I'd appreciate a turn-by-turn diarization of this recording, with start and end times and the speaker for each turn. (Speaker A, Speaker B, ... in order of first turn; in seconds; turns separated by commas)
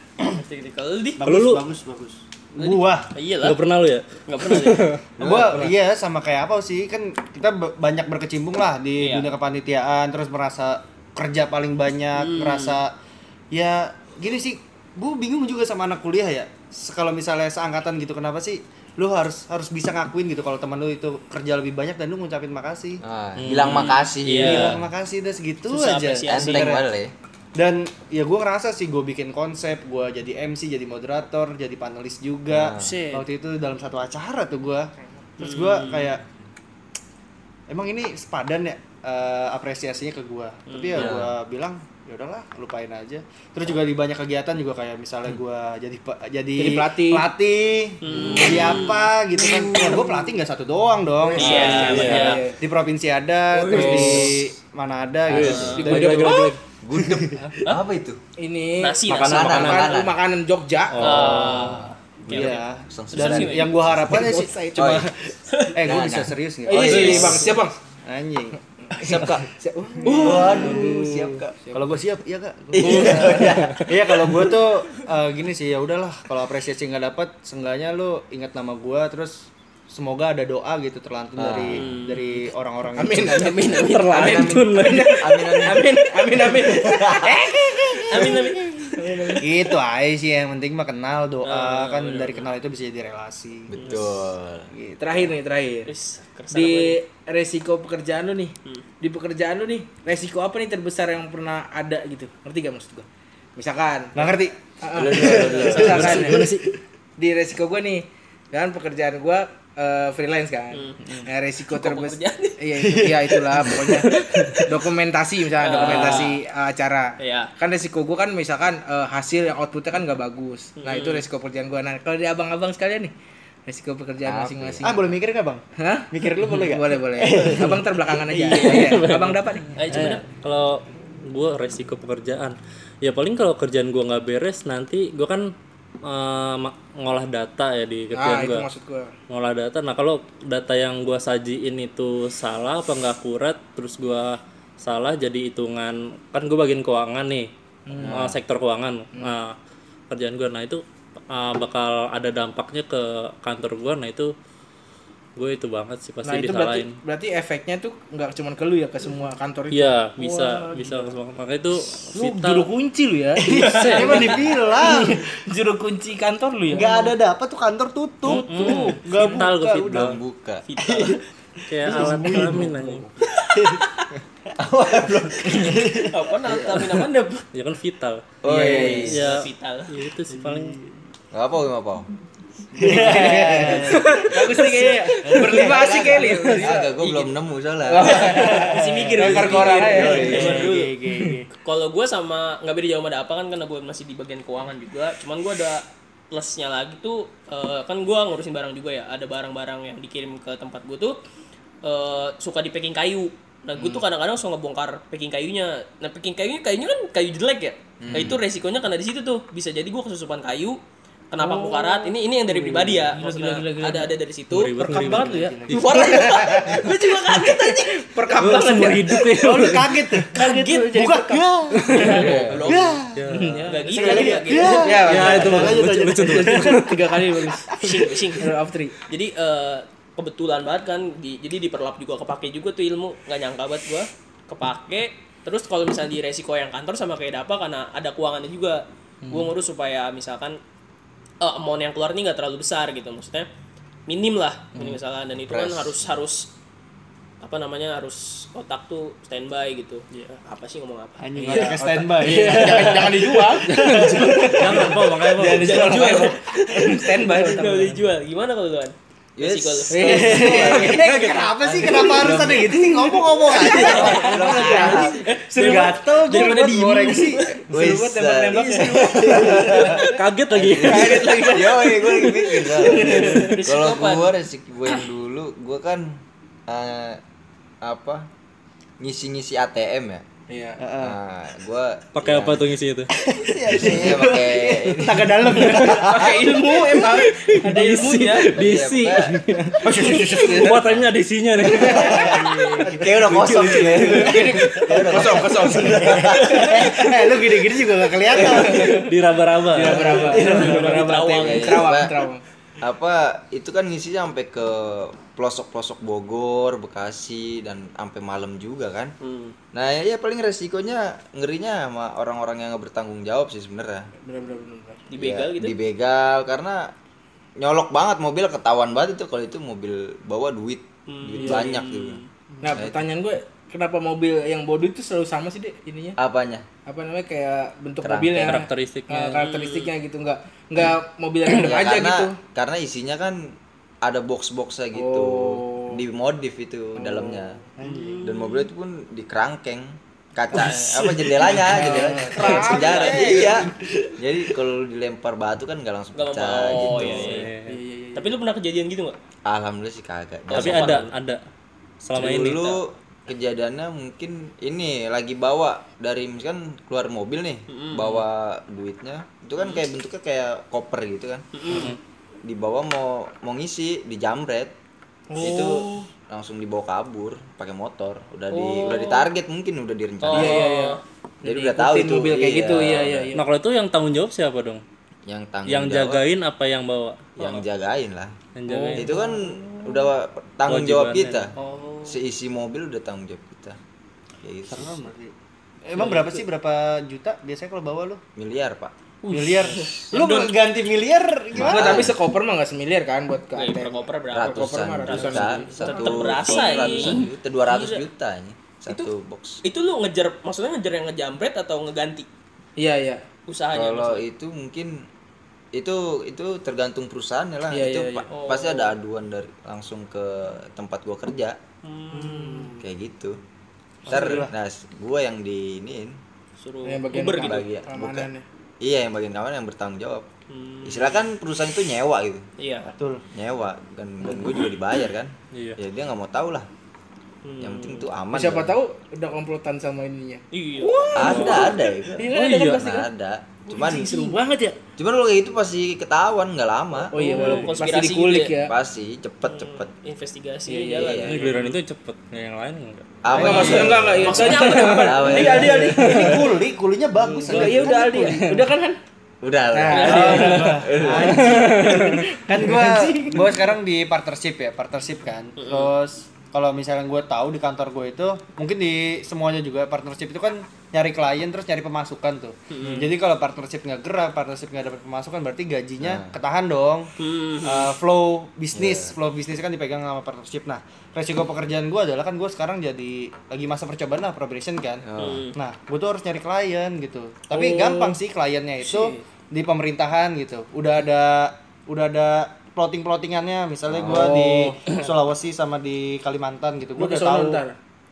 Speaker A: 0.3-1.2, Speaker B: 1.2-3.1, Speaker C: 1.2-1.7, Speaker A: 2.6-3.6, Speaker C: 3.4-5.1, Speaker A: 4.3-5.0, Speaker D: 5.2-5.7, Speaker B: 5.2-12.9, Speaker A: 9.0-9.3, Speaker A: 12.1-12.8, Speaker B: 13.5-23.0, Speaker D: 23.0-24.9, Speaker C: 23.4-24.8, Speaker A: 23.6-24.8, Speaker B: 24.4-26.9, Speaker A: 25.7-26.8, Speaker D: 26.3-27.1, Speaker B: 27.6-36.2, Speaker D: 32.5-33.0, Speaker A: 32.8-33.2, Speaker A: 35.4-36.2, Speaker B: 37.7-57.5, Speaker A: 40.7-41.3, Speaker D: 40.9-41.3, Speaker E: 46.6-47.3, Speaker A: 48.0-50.1, Speaker D: 48.1-48.8, Speaker A: 51.3-52.5, Speaker D: 51.4-52.4, Speaker E: 51.4-52.6, Speaker C: 51.7-52.4, Speaker C: 53.7-54.4, Speaker D: 53.8-54.3, Speaker C: 55.3-56.6, Speaker A: 55.3-55.9, Speaker E: 55.7-56.5, Speaker D: 56.8-58.2, Speaker E: 58.4-61.3, Speaker A: 58.8-60.0, Speaker D: 59.1-60.2, Speaker C: 59.1-59.9, Speaker C: 60.9-61.8, Speaker A: 61.0-63.8, Speaker D: 61.0-65.1, Speaker B: 62.3-69.3, Speaker E: 64.1-64.7, Speaker A: 65.5-66.0, Speaker D: 65.8-67.6, Speaker E: 66.7-67.8, Speaker C: 66.8-67.4, Speaker E: 68.9-71.9, Speaker D: 69.0-69.5, Speaker D: 70.0-71.6, Speaker A: 70.1-70.6, Speaker B: 70.1-70.8, Speaker B: 71.7-84.6, Speaker D: 72.7-73.9, Speaker E: 72.8-73.5, Speaker C: 73.5-73.9, Speaker D: 81.4-81.9, Speaker A: 81.7-82.5, Speaker E: 83.0-88.3, Speaker A: 83.2-84.5, Speaker C: 83.8-85.2, Speaker D: 85.2-85.8, Speaker D: 86.7-87.4, Speaker B: 87.9-88.3, Speaker A: 88.1-89.5, Speaker E: 89.0-89.4, Speaker B: 89.4-93.7, Speaker A: 91.4-92.5, Speaker D: 93.7-94.7, Speaker B: 94.7-95.3, Speaker E: 95.0-95.9, Speaker A: 95.9-97.0, Speaker E: 96.5-106.5, Speaker B: 104.2-106.7, Speaker D: 104.9-106.3, Speaker A: 105.2-106.3, Speaker C: 105.9-106.7, Speaker E: 107.2-123.1, Speaker A: 110.7-112.6, Speaker B: 112.8-114.6, Speaker C: 114.0-114.4, Speaker A: 115.6-116.4, Speaker B: 115.9-116.2, Speaker A: 117.2-117.5, Speaker A: 120.8-121.2, Speaker E: 123.7-125.0, Speaker D: 124.2-124.9, Speaker B: 124.8-127.9, Speaker E: 125.8-129.9, Speaker C: 128.4-135.5, Speaker B: 128.5-128.8, Speaker A: 129.8-130.2, Speaker C: 136.0-138.7, Speaker E: 138.1-139.1, Speaker C: 139.3-149.6, Speaker E: 147.9-148.3, Speaker D: 148.0-148.4, Speaker C: 150.1-154.3, Speaker C: 155.4-156.9, Speaker E: 156.2-161.1, Speaker C: 159.7-162.7, Speaker E: 162.1-167.2, Speaker A: 163.5-164.6, Speaker B: 163.5-165.2, Speaker C: 163.6-164.4, Speaker B: 166.7-170.2, Speaker C: 168.2-170.2, Speaker A: 168.6-169.0, Speaker E: 168.6-169.2, Speaker D: 169.8-170.7, Speaker A: 170.7-171.2, Speaker B: 170.8-171.2, Speaker C: 171.7-173.1, Speaker B: 171.7-173.8, Speaker E: 172.0-172.4, Speaker A: 173.2-173.9, Speaker D: 174.6-176.5, Speaker B: 174.8-176.9, Speaker A: 175.5-177.5, Speaker C: 177.5-180.8, Speaker D: 178.4-179.3, Speaker E: 178.5-179.2, Speaker A: 179.1-179.9, Speaker B: 180.3-181.0, Speaker D: 181.3-182.1, Speaker B: 182.8-186.3, Speaker E: 182.8-187.0, Speaker D: 182.8-184.5, Speaker A: 183.9-187.3, Speaker D: 185.3-188.7, Speaker E: 187.9-190.7, Speaker A: 188.0-190.9, Speaker B: 188.3-191.5, Speaker D: 189.2-190.7, Speaker A: 191.6-201.2, Speaker A: 201.8-210.8, Speaker D: 208.0-208.4, Speaker B: 208.1-208.3, Speaker A: 211.3-219.1, Speaker E: 211.4-214.1, Speaker C: 214.5-216.0, Speaker E: 214.9-222.7, Speaker B: 215.2-216.9, Speaker C: 218.4-220.2, Speaker B: 219.3-220.3, Speaker A: 220.3-221.1, Speaker B: 220.9-223.3, Speaker A: 221.9-223.1, Speaker C: 221.9-223.7, Speaker D: 222.2-222.6, Speaker E: 223.3-227.8, Speaker A: 223.6-225.5, Speaker B: 223.9-228.1, Speaker C: 225.1-227.1, Speaker A: 227.7-228.5, Speaker E: 228.4-229.0, Speaker A: 229.1-240.6, Speaker E: 239.3-239.5, Speaker A: 241.4-243.5, Speaker A: 244.1-246.5, Speaker D: 245.4-246.2, Speaker A: 247.4-251.8, Speaker B: 251.2-254.9, Speaker E: 251.4-258.0, Speaker C: 252.2-256.0, Speaker A: 255.5-260.9, Speaker D: 259.4-261.1, Speaker E: 259.9-270.1, Speaker B: 260.0-267.5, Speaker C: 261.1-262.4, Speaker D: 262.1-263.0, Speaker A: 263.5-267.5, Speaker D: 263.7-265.3, Speaker D: 267.4-277.2, Speaker B: 269.1-269.8, Speaker C: 269.9-271.2, Speaker E: 270.8-273.6, Speaker A: 271.0-271.8, Speaker A: 272.7-274.3, Speaker D: 277.8-278.3, Speaker D: 279.0-280.2, Speaker E: 280.5-280.8, Speaker B: 280.8-281.2, Speaker D: 281.0-282.7, Speaker C: 282.2-283.1, Speaker B: 283.1-287.3, Speaker D: 283.5-286.5, Speaker E: 283.8-288.5, Speaker C: 287.6-289.8, Speaker A: 287.9-288.4, Speaker D: 288.6-289.3, Speaker E: 289.5-290.8, Speaker B: 289.8-290.6, Speaker C: 290.4-292.9, Speaker E: 291.6-297.4, Speaker D: 291.9-297.0, Speaker B: 291.9-299.1, Speaker C: 293.4-294.3, Speaker E: 298.3-299.1, Speaker A: 298.5-298.8, Speaker C: 298.9-300.9, Speaker E: 299.7-302.4, Speaker A: 300.0-302.0, Speaker B: 300.0-300.8, Speaker D: 301.4-302.1, Speaker D: 302.8-309.1, Speaker A: 309.2-309.6, Speaker D: 309.7-314.1, Speaker E: 314.2-315.0, Speaker A: 315.1-315.8, Speaker D: 315.2-316.9, Speaker D: 317.6-322.2, Speaker A: 321.1-322.3, Speaker E: 321.4-321.7, Speaker E: 322.6-326.2, Speaker D: 322.7-323.1, Speaker D: 326.2-326.7, Speaker E: 326.9-332.4, Speaker D: 328.0-328.6, Speaker C: 328.4-329.4, Speaker A: 329.4-329.9, Speaker D: 331.5-337.6, Speaker E: 334.9-336.0, Speaker E: 337.0-337.6, Speaker B: 337.8-338.4, Speaker A: 337.9-338.5, Speaker D: 338.2-347.4, Speaker E: 340.5-343.6, Speaker B: 342.1-343.7, Speaker A: 342.4-343.4, Speaker A: 346.1-347.5, Speaker C: 346.9-347.8, Speaker E: 347.7-348.3, Speaker A: 348.1-349.2, Speaker D: 349.5-351.1, Speaker A: 350.5-351.1, Speaker C: 350.5-351.4, Speaker C: 352.0-352.8, Speaker D: 352.1-361.4, Speaker A: 352.4-352.8, Speaker A: 357.7-358.3, Speaker A: 361.5-361.9, Speaker C: 361.7-362.0, Speaker D: 362.4-364.7, Speaker E: 365.3-366.1, Speaker D: 365.4-370.6, Speaker A: 368.5-369.3, Speaker A: 370.2-371.0, Speaker E: 370.3-373.4, Speaker D: 371.4-373.3, Speaker C: 373.3-374.8, Speaker D: 375.3-376.2, Speaker C: 375.7-377.4, Speaker D: 377.4-378.4, Speaker C: 378.6-379.2, Speaker E: 378.7-379.8, Speaker D: 378.9-381.5, Speaker C: 380.7-381.5, Speaker A: 381.6-382.2, Speaker D: 382.1-383.8, Speaker D: 384.4-385.0, Speaker B: 384.7-385.3, Speaker B: 385.9-388.2, Speaker A: 385.9-386.4, Speaker D: 388.4-388.9, Speaker A: 389.2-390.6, Speaker B: 389.3-392.1, Speaker D: 391.5-392.2, Speaker E: 391.6-397.3, Speaker A: 393.6-398.0, Speaker D: 394.3-399.6, Speaker A: 399.6-402.3, Speaker E: 402.8-403.2, Speaker A: 403.5-404.2, Speaker D: 403.7-405.1, Speaker D: 405.7-411.6, Speaker E: 407.7-408.3, Speaker A: 408.3-409.0, Speaker A: 411.8-412.8, Speaker E: 412.1-412.8, Speaker D: 412.8-413.4, Speaker B: 414.1-414.5, Speaker D: 414.1-416.2, Speaker A: 414.1-414.4, Speaker A: 416.6-417.6, Speaker E: 416.9-418.4, Speaker D: 417.4-418.3, Speaker D: 418.8-420.3, Speaker A: 420.5-421.3, Speaker D: 420.8-422.5, Speaker A: 422.6-422.9, Speaker B: 422.8-423.2, Speaker D: 423.3-426.7, Speaker A: 424.3-424.6, Speaker C: 425.5-425.8, Speaker A: 427.4-428.1, Speaker D: 427.6-428.8, Speaker E: 428.3-433.1, Speaker A: 430.5-431.9, Speaker D: 431.2-434.4, Speaker C: 431.2-431.7, Speaker C: 432.3-432.8, Speaker E: 433.7-434.8, Speaker D: 435.0-437.1, Speaker A: 437.1-438.5, Speaker E: 437.1-438.7, Speaker C: 437.4-437.7, Speaker D: 438.6-439.9, Speaker A: 439.4-441.8, Speaker E: 440.7-441.5, Speaker D: 441.0-441.4, Speaker C: 441.2-443.2, Speaker D: 443.2-446.0, Speaker E: 443.3-446.5, Speaker B: 443.3-443.9, Speaker A: 443.5-445.8, Speaker B: 445.3-448.6, Speaker C: 446.0-446.5, Speaker E: 447.2-449.0, Speaker C: 447.4-448.3, Speaker D: 449.4-451.6, Speaker E: 449.7-453.6, Speaker A: 449.9-450.8, Speaker B: 449.9-487.6, Speaker C: 451.6-452.3, Speaker A: 455.6-455.9, Speaker A: 462.7-463.1, Speaker D: 466.0-466.4, Speaker A: 467.2-467.9, Speaker D: 468.7-469.2, Speaker D: 475.1-475.5, Speaker A: 475.2-475.6, Speaker E: 477.5-478.1, Speaker A: 477.6-477.9, Speaker A: 478.9-479.1, Speaker D: 483.9-484.4, Speaker E: 484.1-484.8, Speaker E: 487.0-487.8